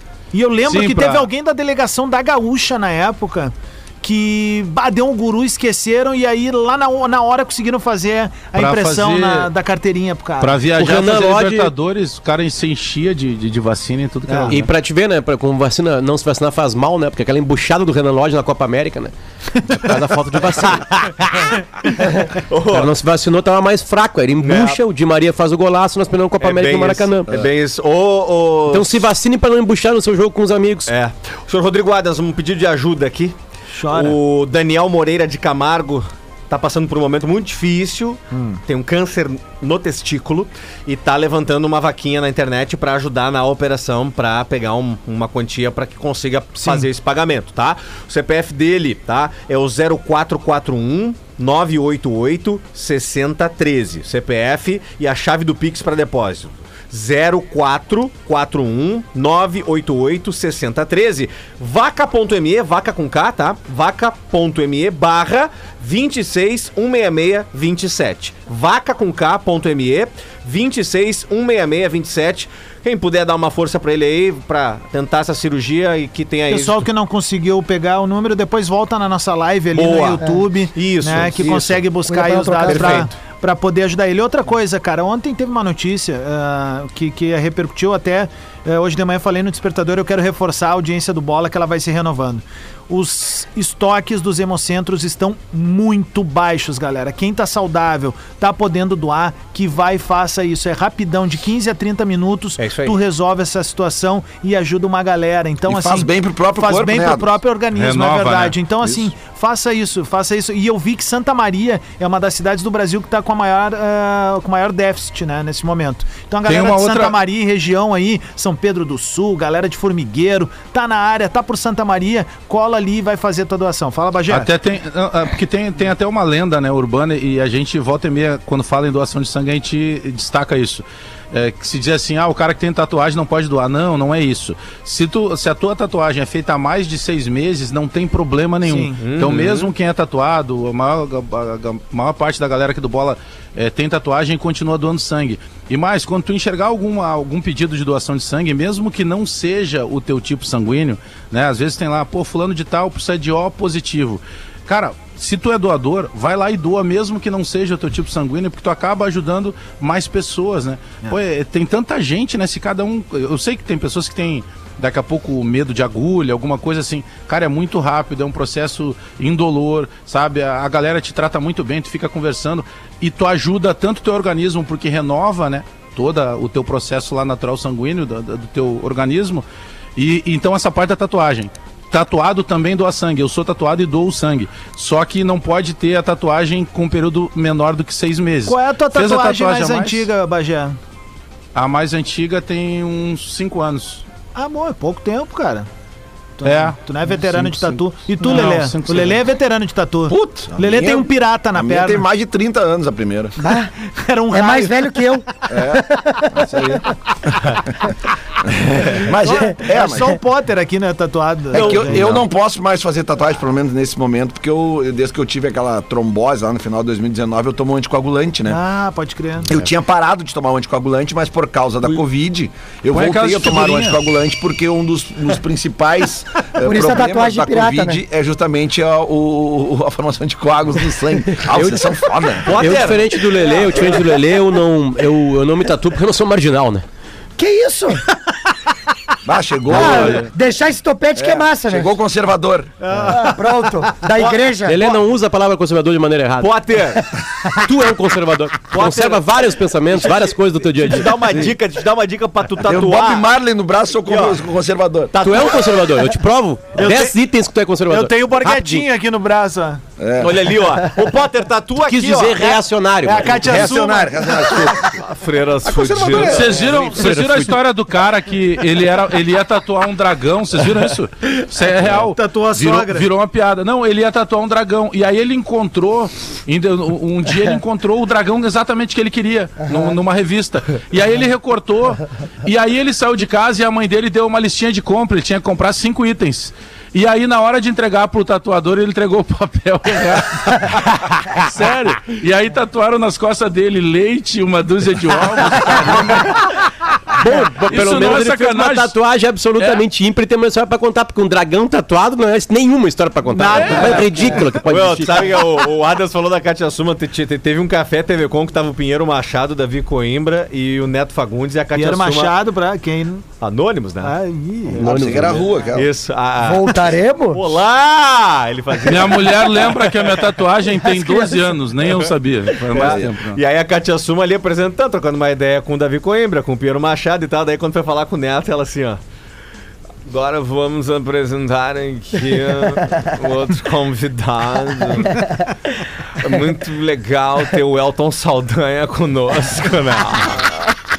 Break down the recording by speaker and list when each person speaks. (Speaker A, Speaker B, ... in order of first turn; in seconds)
Speaker A: 0.3-10.6, 14.3-14.6, 19.7-20.0, 33.7-34.2, 38.3-38.6, 46.6-46.9, 76.5-124.5, 138.7-139.0, 188.5-190.8, 194.3-195.7, 196.4-202.0, 203.8-205.2, 208.9-212.2, 218.5-219.5, 242.8-243.4, 256.8-257.2, 257.9-259.8, 263.0-264.9, 271.9-273.1, 303.3-304.6, 311.7-313.3, 314.0-314.9
Speaker B: 0.7-1.3, 8.6-9.5, 10.4-14.7, 107.8-108.6, 116.5-117.2, 124.3-179.4, 180.0-190.1, 191.6-194.0, 196.4-199.2, 222.9-224.0, 239.7-240.3, 266.1-296.7, 297.4-298.9, 299.6-299.8, 303.4-304.1, 318.9-323.4
Speaker C: 10.8-11.7, 14.5-19.1, 19.7-21.5, 22.2-27.4, 28.7-30.9, 231.4-236.8, 244.7-251.5, 255.1-258.9, 261.9-263.9, 266.9-267.6, 297.1-305.4, 314.8-315.5
Speaker D: 20.9-21.5, 22.3-22.9, 24.4-24.8, 26.4-29.1, 30.9-33.4, 33.9-76.8, 79.7-81.8, 82.7-83.1, 102.6-103.0, 139.0-139.7, 211.5-212.2, 232.4-233.9, 246.4-247.1, 248.7-249.3, 249.9-253.3, 254.1-254.4, 260.2-262.6, 264.8-266.9, 304.4-312.4, 313.4-314.1, 315.1-316.8, 317.3-320.2, 322.6-329.0, 330.1-335.3, 336.1-340.8
Speaker E: 80.2-80.5, 82.1-83.1, 203.4-203.7, 204.3-206.8, 226.6-228.0, 237.4-238.1, 239.7-241.9, 243.1-244.8, 316.4-317.6, 320.9-321.3
Speaker F: 105.7-107.4, 200.1-203.4, 205.5-206.9, 208.4-210.2, 211.5-218.6, 219.5-232.6, 239.2-240.3, 241.2-242.8, 252.7-255.3, 260.0-260.7, 263.5-264.8, 265.6-266.9, 314.8-315.9, 322.8-323.1